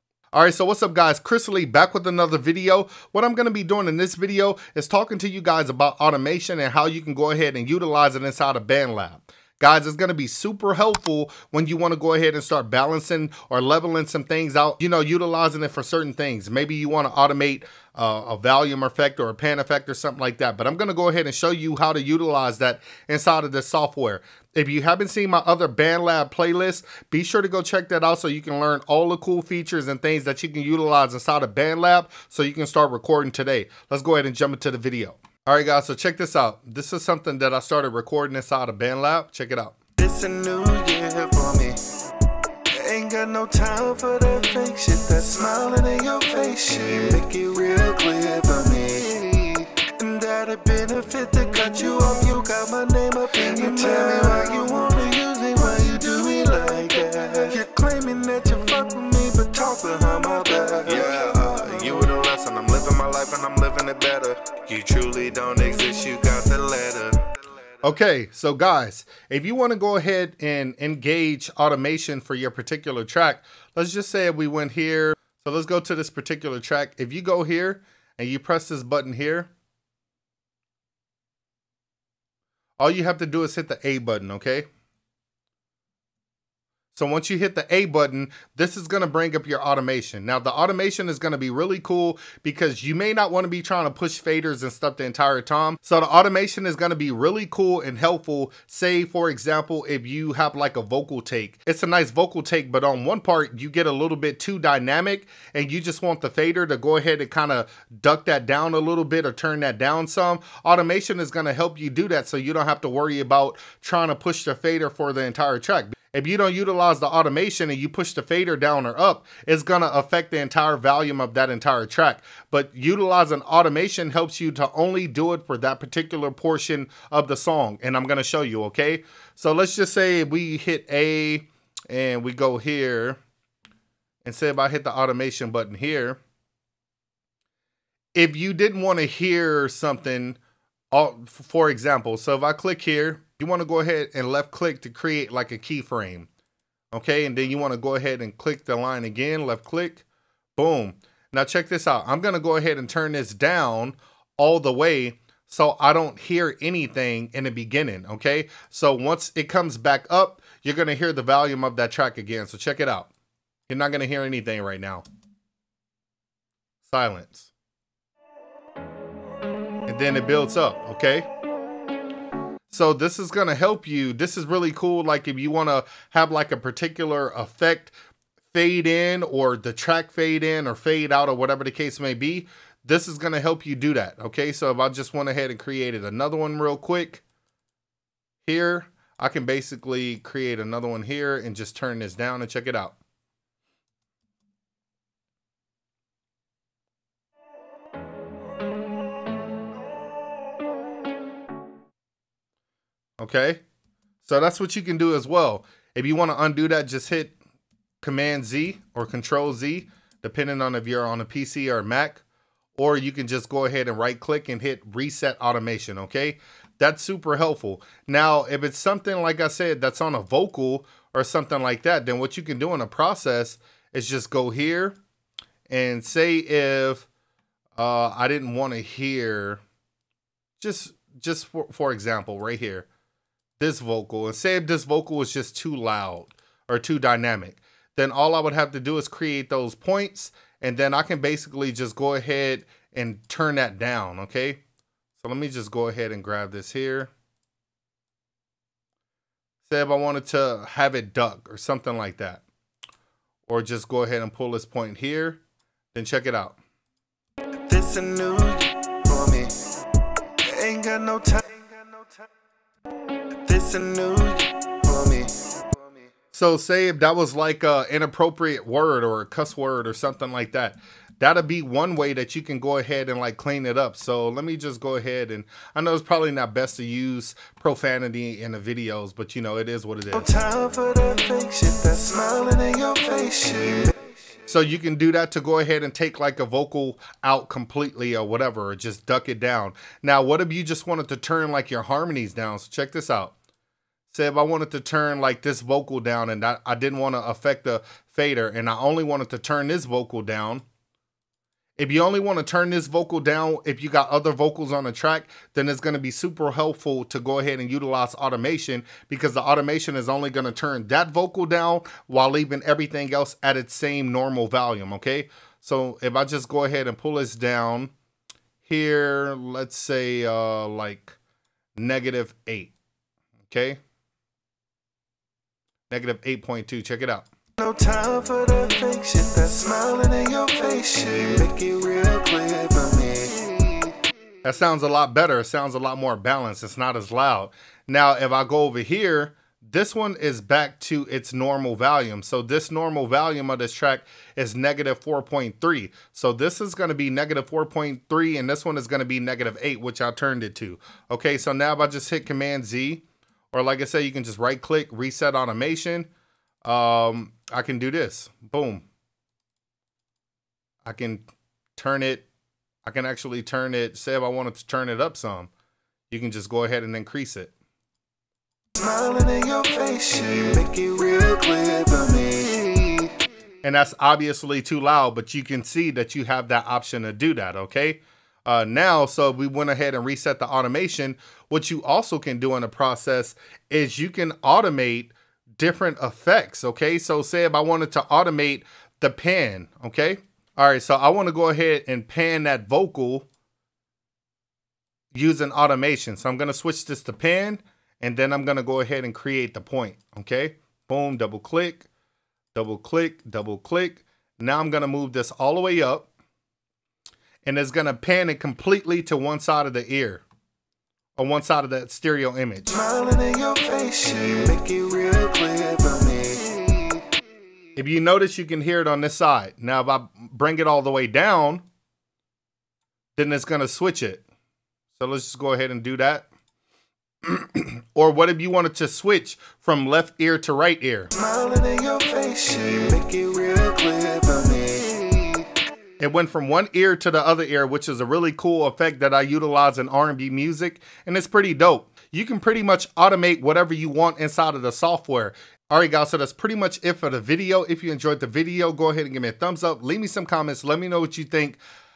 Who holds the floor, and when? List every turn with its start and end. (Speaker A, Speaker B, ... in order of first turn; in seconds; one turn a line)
Speaker A: 0.3-39.8
Speaker B: 40.0-41.9
Speaker B: 42.7-62.1
Speaker A: 60.8-64.1
Speaker B: 63.0-67.2
Speaker A: 67.8-79.5
Speaker A: 82.8-84.7
Speaker A: 86.9-133.2
Speaker A: 134.2-136.2
Speaker A: 138.1-140.4
Speaker A: 140.9-146.3
Speaker A: 146.9-150.0
Speaker A: 150.6-163.1
Speaker A: 163.7-165.0
Speaker A: 166.8-167.5
Speaker A: 169.9-171.3
Speaker A: 172.7-177.9
Speaker A: 178.5-187.2
Speaker A: 188.4-193.0
Speaker A: 203.2-203.6
Speaker A: 204.2-207.3
Speaker A: 208.0-212.2
Speaker A: 212.8-224.9
Speaker A: 225.7-227.1
Speaker A: 227.8-229.6
Speaker A: 230.6-232.9
Speaker A: 233.6-244.6
Speaker A: 245.2-247.1
Speaker A: 249.6-252.4
Speaker A: 253.4-255.4
Speaker A: 255.9-256.6
Speaker B: 257.7-259.6
Speaker B: 260.4-262.2
Speaker B: 263.4-265.9
Speaker A: 266.3-280.4
Speaker B: 280.2-284.1
Speaker A: 284.5-293.3
Speaker A: 294.1-300.6
Speaker A: 301.8-317.9
Speaker A: 318.6-321.1
Speaker A: 321.8-322.7
Speaker A: 323.4-323.8
Speaker A: 325.9-327.3
Speaker B: 327.6-333.9
Speaker A: 334.4-356.1
Speaker A: 356.6-358.9
Speaker A: 360.8-361.2
Speaker A: 361.8-362.3
Speaker A: 362.8-365.5
Speaker A: 366.1-367.5
Speaker B: 368.8-373.2
Speaker A: 373.6-393.3
Speaker A: 395.1-401.9
Speaker A: 402.5-406.1
Speaker A: 407.4-410.2
Speaker A: 411.2-412.7
Speaker B: 412.7-417.0
Speaker A: 417.8-421.6
Speaker A: 423.1-424.2
Speaker A: 424.9-426.3
Speaker A: 427.2-431.1
Speaker B: 431.1-435.5
Speaker A: 436.0-451.6